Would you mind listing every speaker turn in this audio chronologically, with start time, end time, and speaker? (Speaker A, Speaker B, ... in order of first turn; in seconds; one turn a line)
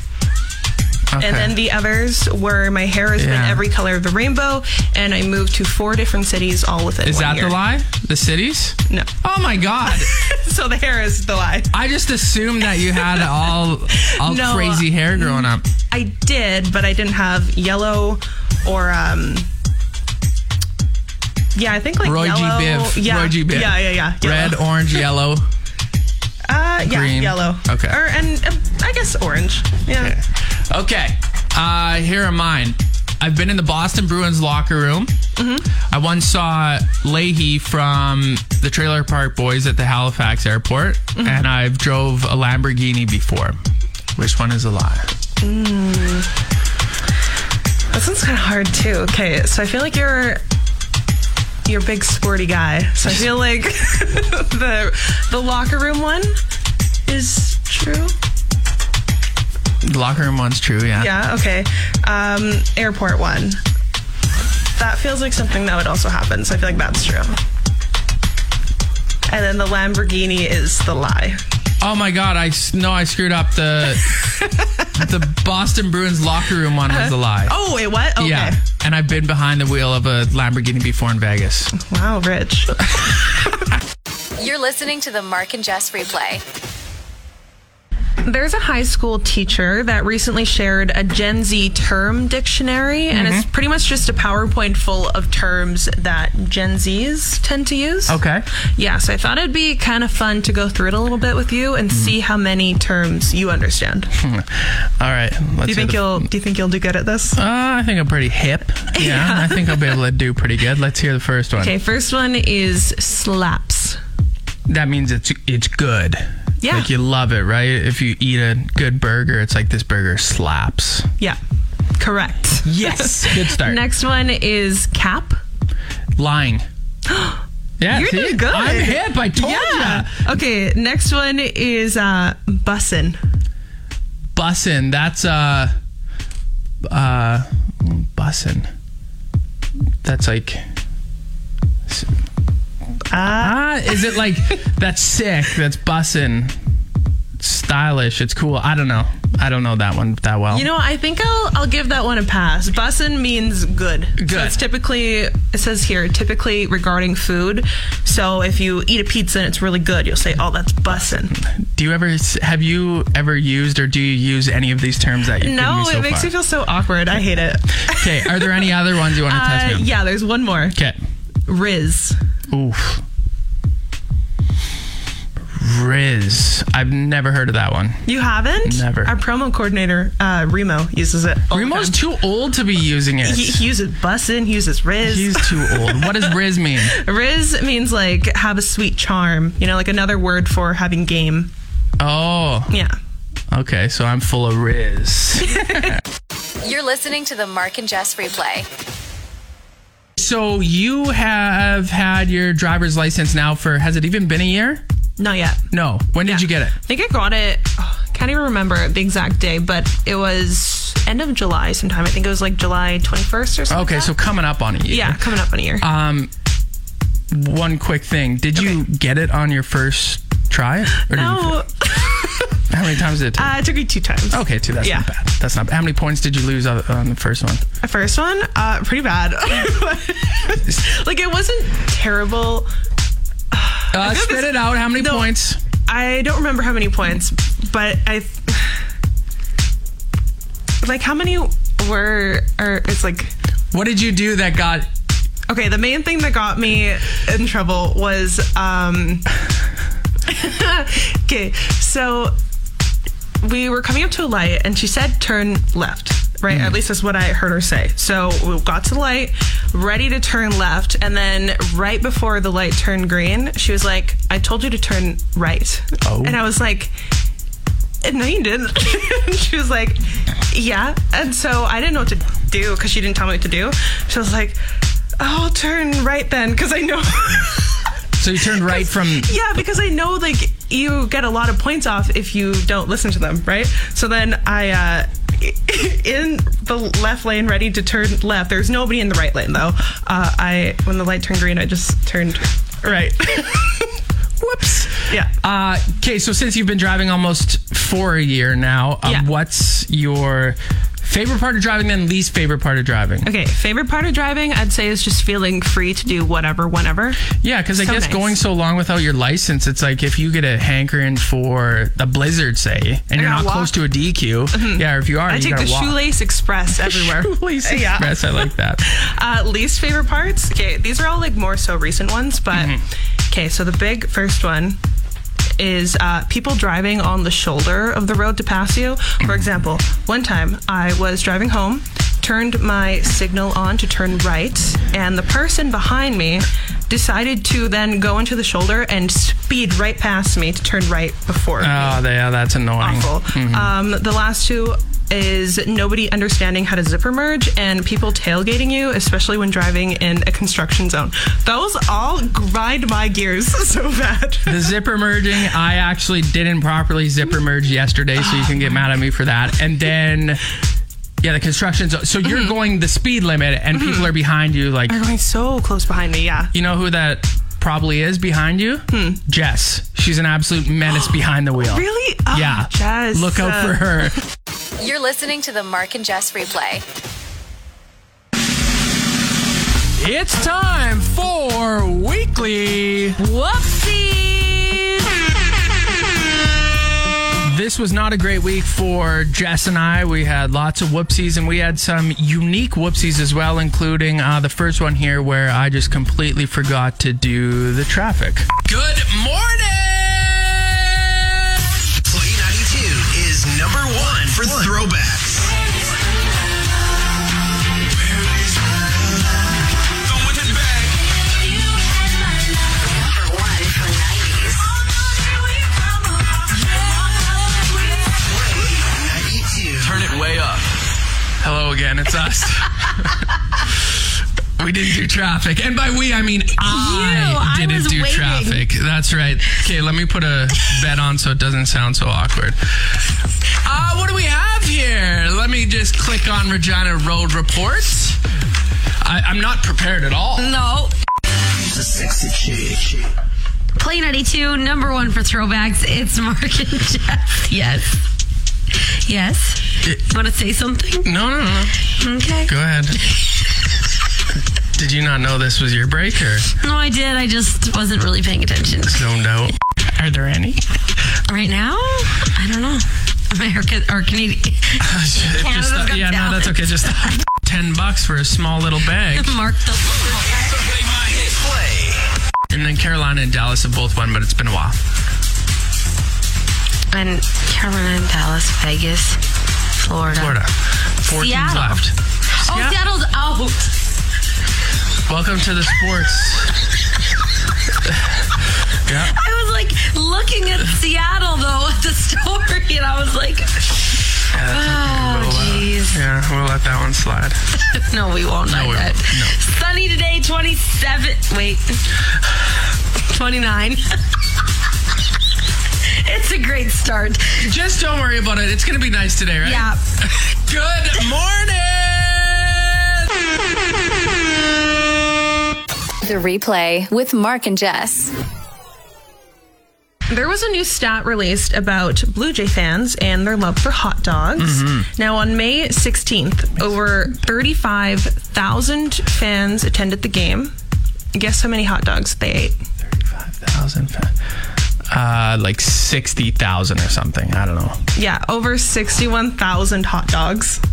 Speaker A: 1.1-1.5
Speaker B: 1.2-7.6
Speaker A: 3.2-3.6
Speaker A: 7.0-10.1
Speaker B: 9.9-11.8
Speaker A: 11.7-15.7
Speaker B: 12.8-13.3
Speaker B: 14.0-19.5
Speaker B: 21.5-24.8
Speaker A: 22.0-25.4
Speaker B: 26.5-30.1
Speaker A: 26.8-28.0
Speaker A: 30.0-35.1
Speaker B: 35.4-35.7
Speaker A: 35.8-43.6
Speaker B: 41.1-41.4
Speaker A: 44.1-45.1
Speaker B: 45.4-46.3
Speaker B: 47.9-50.4
Speaker B: 51.6-56.4
Speaker B: 57.1-58.1
Speaker A: 59.8-61.1
Speaker B: 61.0-63.6
Speaker B: 64.8-67.4
Speaker B: 69.3-71.4
Speaker A: 71.8-74.1
Speaker B: 74.4-75.0
Speaker A: 74.9-77.5
Speaker B: 76.9-78.6
Speaker A: 78.2-81.7
Speaker B: 81.7-82.9
Speaker C: 84.4-86.4
Speaker B: 88.2-98.2
Speaker A: 93.1-93.5
Speaker A: 98.1-98.5
Speaker B: 98.8-104.1
Speaker A: 104.1-106.3
Speaker B: 105.7-107.4
Speaker A: 107.3-111.7
Speaker B: 108.9-110.0
Speaker B: 111.6-114.0
Speaker A: 114.7-121.1
Speaker B: 116.6-116.9
Speaker B: 122.0-125.4
Speaker A: 122.6-123.8
Speaker A: 126.2-126.7
Speaker B: 127.1-133.2
Speaker A: 127.8-130.1
Speaker A: 134.3-135.7
Speaker A: 136.8-138.7
Speaker A: 140.0-140.7
Speaker B: 143.1-144.0
Speaker A: 143.2-146.6
Speaker A: 147.4-150.7
Speaker B: 150.5-161.3
Speaker A: 154.2-154.6
Speaker A: 161.1-166.3
Speaker B: 165.4-168.7
Speaker A: 167.9-169.9
Speaker B: 169.2-170.8
Speaker A: 170.7-171.0
Speaker B: 171.5-172.2
Speaker A: 172.5-173.0
Speaker A: 175.5-178.1
Speaker B: 178.1-182.0
Speaker A: 178.6-179.1
Speaker A: 181.5-183.6
Speaker B: 183.2-191.5
Speaker A: 185.0-187.0
Speaker A: 192.0-192.7
Speaker B: 192.7-193.0
Speaker A: 193.5-196.0
Speaker B: 195.5-195.9
Speaker C: 196.6-198.7
Speaker A: 200.2-204.8
Speaker B: 205.2-205.6
Speaker A: 205.7-206.7
Speaker B: 206.2-214.1
Speaker A: 213.7-215.2
Speaker B: 214.9-215.9
Speaker A: 215.8-216.3
Speaker A: 217.3-221.6
Speaker B: 221.1-222.6
Speaker A: 222.7-223.6
Speaker B: 223.3-225.1
Speaker A: 224.3-227.6
Speaker B: 227.8-232.7
Speaker B: 233.5-235.3
Speaker A: 233.9-235.6
Speaker B: 235.9-238.8
Speaker B: 240.8-243.3
Speaker A: 243.7-244.9
Speaker B: 245.5-249.3
Speaker B: 250.2-252.3
Speaker B: 253.4-266.9
Speaker A: 256.5-256.7
Speaker A: 266.0-266.4
Speaker B: 268.0-274.6
Speaker B: 275.2-277.9
Speaker A: 278.2-279.3
Speaker B: 278.5-294.0
Speaker A: 294.4-303.3
Speaker B: 295.1-295.3
Speaker B: 303.2-308.3
Speaker A: 307.4-316.0
Speaker B: 313.1-313.7
Speaker B: 314.5-324.8
Speaker A: 316.7-318.9
Speaker A: 322.5-322.8
Speaker B: 325.6-342.0
Speaker A: 341.6-343.7
Speaker B: 342.8-354.7
Speaker A: 354.5-360.4
Speaker B: 358.3-358.6
Speaker A: 361.2-365.0
Speaker B: 362.2-362.5
Speaker B: 363.7-364.1
Speaker B: 364.9-366.5
Speaker A: 366.5-374.2
Speaker B: 368.9-369.2
Speaker B: 371.6-373.9
Speaker C: 374.8-376.8
Speaker A: 379.9-383.2
Speaker D: 383.2-384.8
Speaker A: 387.4-401.7
Speaker E: 402.0-405.5
Speaker D: 411.5-412.6
Speaker C: 412.8-414.7
Speaker D: 416.3-418.3
Speaker A: 419.7-420.6
Speaker A: 421.4-424.1
Speaker A: 424.6-433.0
Speaker D: 426.6-428.6
Speaker A: 433.6-438.2
Speaker A: 439.0-440.6
Speaker D: 440.4-440.9
Speaker D: 443.8-448.0
Speaker D: 449.0-451.1
Speaker A: 451.0-451.7
Speaker D: 451.9-452.5
Speaker A: 452.4-453.0
Speaker A: 454.7-456.5
Speaker D: 456.6-459.1
Speaker A: 458.9-460.6
Speaker D: 461.3-467.2
Speaker A: 464.8-469.3
Speaker D: 469.1-470.7
Speaker A: 472.5-474.8
Speaker D: 476.9-479.2
Speaker D: 479.8-480.4
Speaker A: 480.1-482.8
Speaker D: 481.1-481.8
Speaker D: 482.4-483.8
Speaker A: 485.1-486.7
Speaker A: 488.8-489.1
Speaker D: 489.1-494.0
Speaker A: 494.3-497.4
Speaker D: 494.5-496.0
Speaker D: 497.5-501.8
Speaker A: 498.4-499.4
Speaker D: 503.1-504.1
Speaker D: 505.8-507.5
Speaker A: 507.4-513.1
Speaker D: 509.4-509.8
Speaker C: 516.0-518.1
Speaker B: 520.1-530.5
Speaker A: 524.4-524.9
Speaker B: 531.1-532.6
Speaker A: 532.9-534.1
Speaker A: 534.9-537.8
Speaker B: 537.9-540.6